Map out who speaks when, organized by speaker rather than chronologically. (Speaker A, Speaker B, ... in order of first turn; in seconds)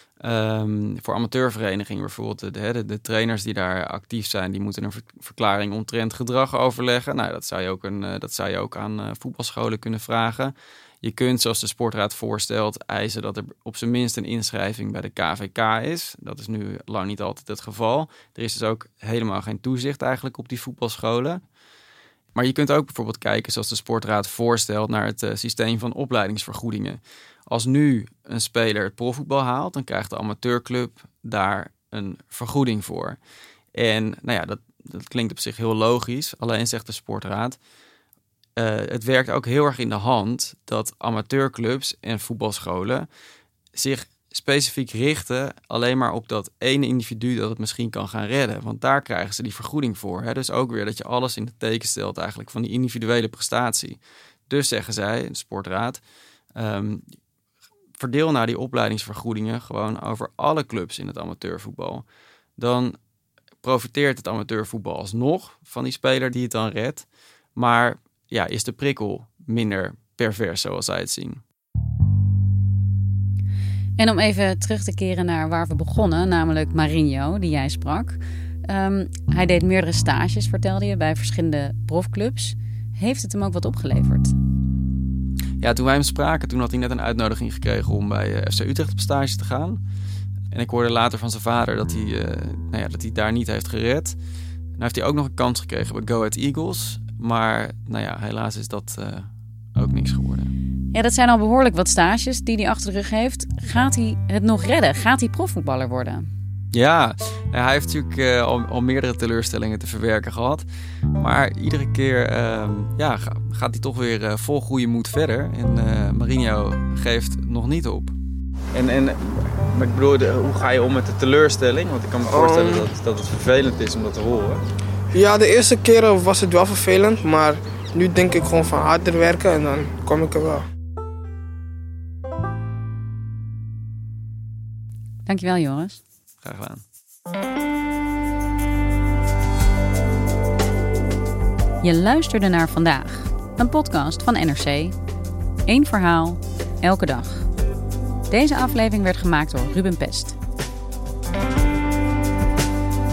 Speaker A: 0.2-21.4, 22.4-33.2, 33.8-37.6, 38.6-43.1, 43.8-56.0, 56.6-57.0, 58.0-62.0, 62.6-63.0, 63.6-67.0, 67.6-71.4, 85.6-89.8, 90.5-94.2, 94.8-100.5, 106.7-110.7, 111.2-118.2, 118.7-124.6, 136.4-136.8
Speaker B: 74.0-84.3, 100.9-106.2, 135.3-136.0, 141.8-145.0, 145.7-147.5, 148.3-150.4
Speaker C: 122.3-122.9, 125.1-130.6